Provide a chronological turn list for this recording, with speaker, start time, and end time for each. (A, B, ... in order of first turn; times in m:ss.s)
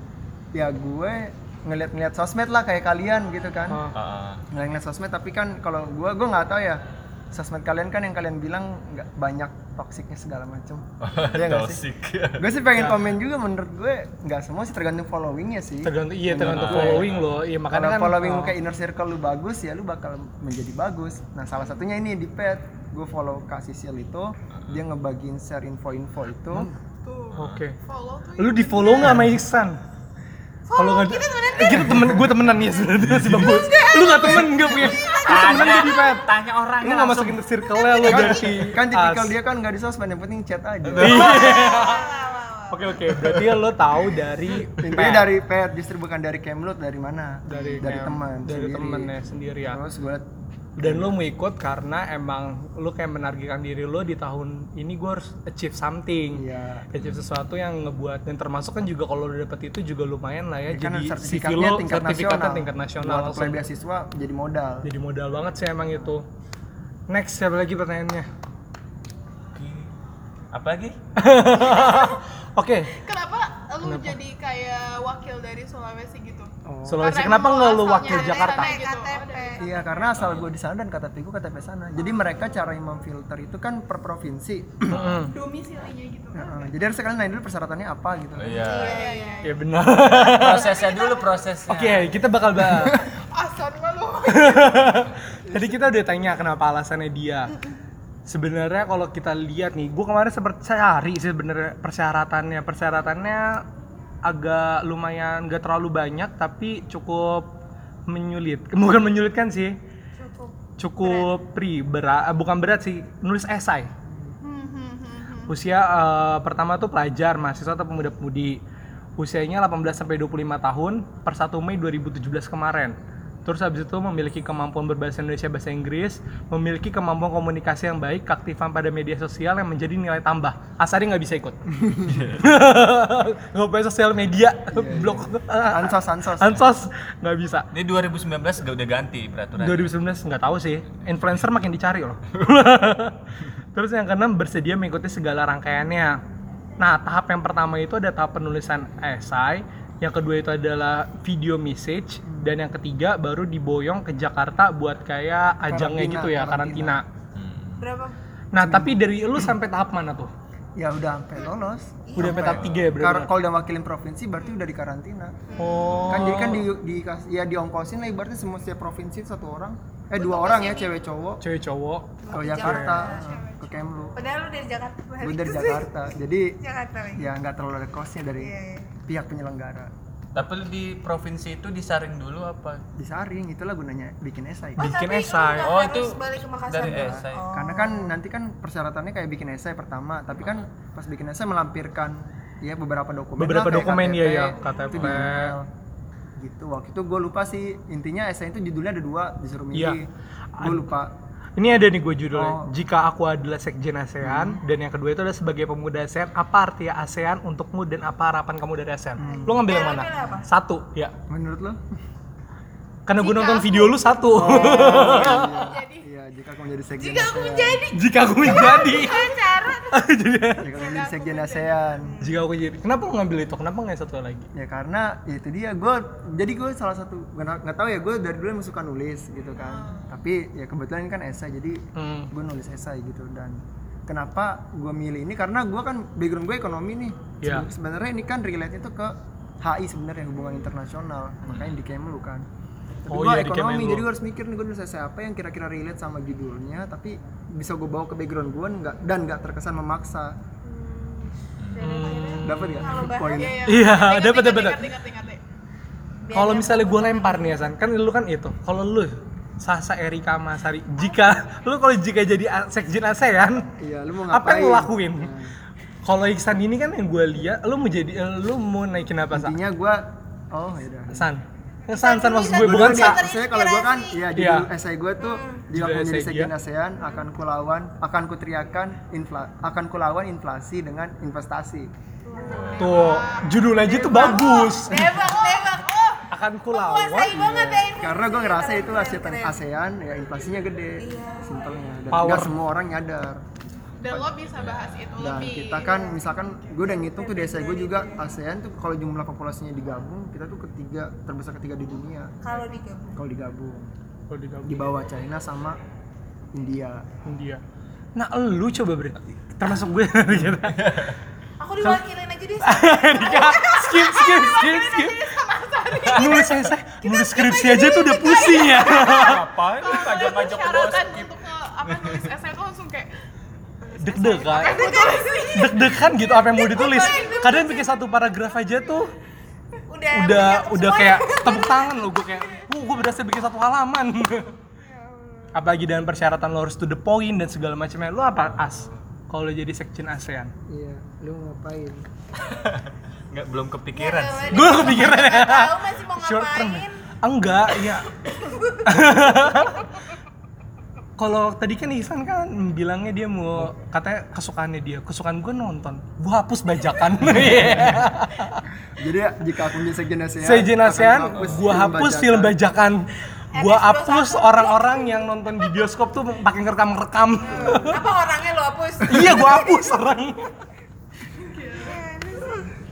0:00.5-0:03.9 A
0:03.7-0:03.9 B
0:03.9-0:04.4 C
0:04.5-0:11.8 A
0:11.0-0:12.4 C
0:12.4-0:17.2 A
0:12.7-0:13.0 B
0:15.8-0:18.6 B
0:16.4-0:17.4 C
0:17.7-0:26.7 A
0:27.0-0:29.3 D
0:27.3-0:27.6 C
0:27.4-0:27.8 B
0:28.4-0:29.8 B
0:30.7-0:31.9 D
0:30.8-0:39.4 B
0:33.0-0:33.7 C
0:33.6-0:35.5 E
0:35.1-0:37.4 C
0:38.0-0:41.6 A
0:40.9-0:41.3 C
0:41.0-0:45.3 B
0:41.3-0:42.9 E
0:43.1-0:43.4 C
0:44.8-0:49.1 A
0:47.5-0:49.8 B
0:47.5-0:47.8 E
0:49.7-0:50.3 A
0:50.8-1:03.6 B
0:50.8-0:51.2 A
0:56.3-0:56.9 A
0:57.0-0:57.3 C
1:00.7-1:04.9 A
1:04.8-1:06.2 B
1:07.1-1:08.3 B
1:09.5-1:09.9 C
1:10.5-1:11.0 C
1:11.2-1:13.0 B
1:11.6-1:12.2 D
1:13.0-1:20.1 D
1:13.8-1:14.2 B
1:16.6-1:17.0 A
1:16.9-1:18.8 B
1:18.1-1:19.7 E
1:19.6-1:25.0 A
1:20.1-1:20.5 C
1:24.9-1:25.3 B
1:24.9-1:25.3 C
1:25.3-1:26.7 D
1:26.3-1:28.7 A
1:28.4-1:29.1 C
1:28.5-1:29.6 E
1:28.7-1:31.5 D
1:29.4-1:30.7 B
1:30.1-1:32.1 C
1:31.7-1:33.1 B
1:33.0-1:35.0 D
1:34.2-1:37.6 B
1:35.5-1:35.8 A
1:38.3-1:43.6 B
1:44.2-1:47.6 B
1:48.1-1:49.8 B
1:50.2-1:51.4 E
1:50.8-1:53.9 B
1:54.4-1:55.5 D
1:55.5-1:58.6 B
1:59.2-2:11.6 B
2:11.7-2:12.2 A
2:12.0-2:12.5 C
2:12.4-2:17.7 B
2:14.7-2:16.6 A
2:17.7-2:19.9 C
2:19.6-2:23.2 B
2:23.7-2:26.2 B
2:26.8-2:37.1 B
2:32.2-2:32.6 A
2:35.6-2:37.0 A
2:37.4-2:37.9 C
2:37.8-2:38.2 E
2:38.5-2:40.3 B
2:38.6-2:39.5 A
2:40.8-2:45.6 A
2:42.1-2:42.4 E
2:42.2-2:43.3 B
2:42.3-2:42.9 C
2:45.5-2:46.1 E
2:45.6-2:46.7 B
2:45.9-2:46.3 C
2:46.1-2:51.4 A
2:50.2-2:50.9 E
2:51.4-2:53.0 B
2:52.2-2:55.9 E
2:52.3-2:54.2 A
2:55.2-2:56.6 A
2:56.6-2:57.3 E
2:57.2-2:58.5 A
2:58.4-2:58.9 E
2:59.1-3:00.5 A
3:00.4-3:02.8 C
3:03.0-3:04.9 A
3:04.8-3:05.8 B
3:04.8-3:08.1 E
3:05.6-3:07.5 C
3:06.7-3:15.7 A
3:13.4-3:15.6 B
3:16.4-3:20.1 A
3:19.7-3:20.0 B
3:20.6-3:20.9 B
3:20.6-3:21.1 A
3:21.6-3:31.1 B
3:22.3-3:22.7 A
3:24.2-3:24.6 A
3:29.2-3:29.8 A
3:29.2-3:30.5 E
3:31.3-3:31.8 A
3:33.1-3:35.5 B
3:33.2-3:36.0 D
3:33.8-3:35.0 E
3:34.3-3:37.8 A
3:37.0-3:40.0 E
3:37.9-3:39.2 B
3:38.7-3:39.8 D
3:39.9-3:40.7 B
3:40.6-3:42.2 A
3:40.7-3:41.8 D
3:42.1-3:42.4 E
3:42.2-3:44.5 B
3:44.5-4:02.5 A
3:49.6-3:50.1 D
3:52.0-3:52.3 B
3:57.4-3:57.7 B
4:01.4-4:01.8 C
4:03.1-4:10.4 A
4:03.1-4:04.1 B
4:10.6-4:13.5 E
4:11.6-4:12.1 C
4:11.8-4:13.0 B
4:12.4-4:13.6 A
4:13.3-4:15.4 D
4:13.6-4:14.8 B
4:16.2-4:17.7 E
4:16.3-4:23.7 B
4:23.8-4:25.6 A
4:24.3-4:25.4 B
4:26.0-4:29.6 B
4:29.3-4:31.3 A
4:31.1-4:33.2 B
4:31.9-4:34.2 E
4:32.5-4:41.9 A
4:34.4-4:34.7 B
4:35.2-4:35.7 E
4:35.7-4:36.5 B
4:37.0-4:37.3 E
4:42.2-4:43.2 E
4:42.3-4:46.2 D
4:42.4-4:43.0 C
4:42.8-4:45.2 B
4:44.1-4:49.6 E
4:46.3-4:47.5 B
4:47.3-4:53.4 A
4:51.0-4:52.0 E
4:52.1-4:52.6 B
4:54.0-4:56.7 D
4:54.5-4:55.1 C
4:55.2-5:02.4 A
4:55.7-4:58.2 E
5:02.4-5:03.2 E
5:03.1-5:03.9 A
5:04.3-5:04.9 B
5:04.7-5:05.8 A
5:06.5-5:07.1 A
5:07.2-5:07.6 B
5:08.2-5:11.0 B
5:10.6-5:11.2 C
5:11.6-5:14.8 E
5:12.6-5:15.4 B
5:14.2-5:23.1 D
5:16.1-5:19.4 B
5:17.3-5:18.7 E
5:19.0-5:21.3 C
5:21.9-5:22.3 C
5:23.8-5:25.8 D
5:24.0-5:29.1 B
5:24.4-5:28.1 E
5:26.6-5:27.8 D
5:29.9-5:32.7 E
5:30.1-5:34.6 B
5:34.8-5:35.8 E
5:35.5-5:40.5 B
5:38.4-5:38.9 C
5:40.7-5:42.1 A
5:42.4-5:45.1 C
5:43.9-5:47.0 E
5:44.5-5:48.1 B
5:48.3-5:49.0 E
5:48.8-5:49.9 B
5:51.2-5:58.6 B
5:59.0-6:02.6 A
6:00.4-6:08.1 B
6:03.5-6:05.8 E
6:07.4-6:09.9 E
6:09.1-6:10.6 B
6:11.5-6:12.0 D
6:11.6-6:12.7 E